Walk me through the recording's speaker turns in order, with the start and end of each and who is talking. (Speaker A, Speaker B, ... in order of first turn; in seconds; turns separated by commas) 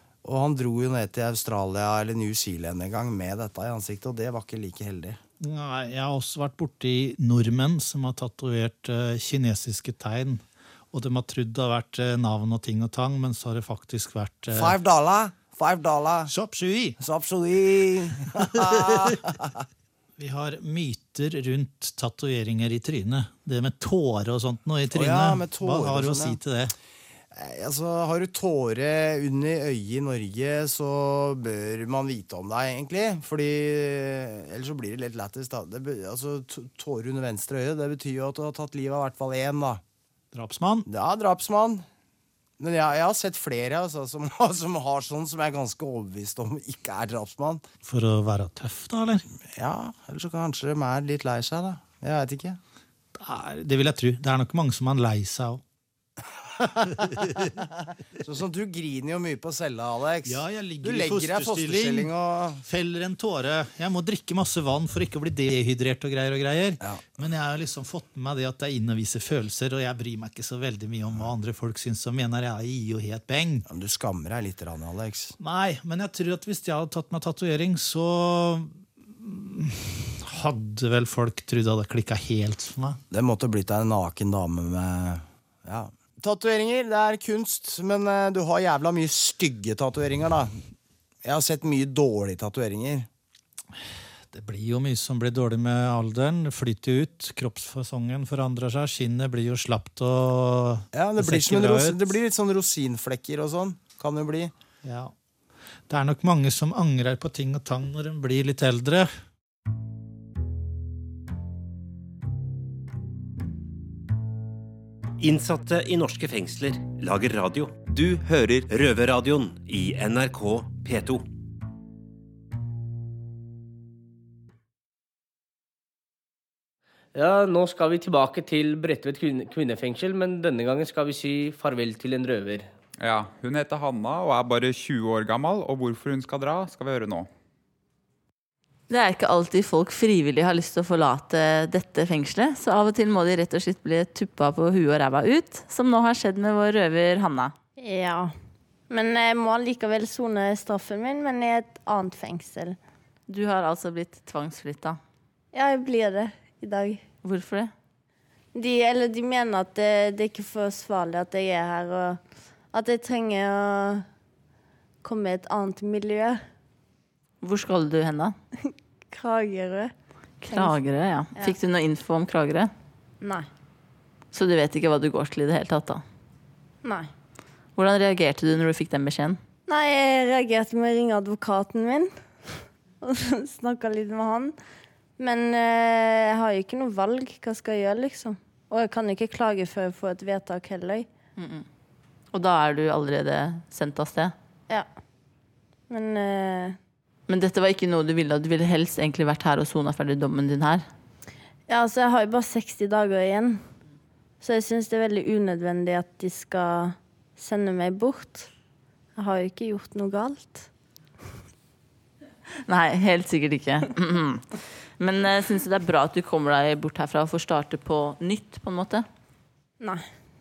Speaker A: 0.2-5.2, Speaker B: 5.4-14.7, Speaker A: 14.5-16.3, Speaker B: 16.3-17.0, Speaker A: 17.0-19.6, Speaker B: 18.4-19.1, Speaker B: 20.2-26.7, Speaker A: 24.9-26.4, Speaker A: 27.3-39.8, Speaker B: 40.3-40.9, Speaker A: 40.9-41.9, Speaker A: 42.6-47.6, Speaker B: 47.8-49.2, Speaker A: 49.5-52.6, Speaker B: 53.2-55.6, Speaker B: 56.8-57.5, Speaker A: 58.2-62.6, Speaker B: 60.3-62.1, Speaker B: 62.6-73.7, Speaker A: 73.7-75.4, Speaker B: 75.4-83.0, Speaker A: 83.1-90.5, Speaker A: 91.2-93.1, Speaker B: 94.3-102.1, Speaker A: 100.9-104.5, Speaker B: 104.8-105.1, Speaker B: 105.9-109.1, Speaker C: 115.2-121.2, Speaker D: 127.2-132.7, Speaker E: 133.0-137.3, Speaker F: 138.9-147.5, Speaker G: 147.8-148.3, Speaker G: 148.9-152.8, Speaker F: 153.3-155.0, Speaker G: 155.5-157.0, Speaker F: 157.2-157.7, Speaker G: 158.5-162.2, Speaker G: 162.7-164.1, Speaker G: 165.0-166.4, Speaker F: 167.4-168.3, Speaker G: 169.1-169.9, Speaker F: 170.4-172.7, Speaker G: 170.5-170.8, Speaker G: 173.2-173.5, Speaker F: 174.3-176.0, Speaker G: 176.8-177.1, Speaker F: 177.8-179.4, Speaker G: 179.7-184.6, Speaker G: 185.2-191.1, Speaker F: 191.4-191.7, Speaker F: 192.3-194.3, Speaker G: 195.9-196.8, Speaker F: 197.3-200.8, Speaker G: 201.7-203.6, Speaker G: 204.4-208.5, Speaker G: 209.2-210.7, Speaker F: 212.7-219.1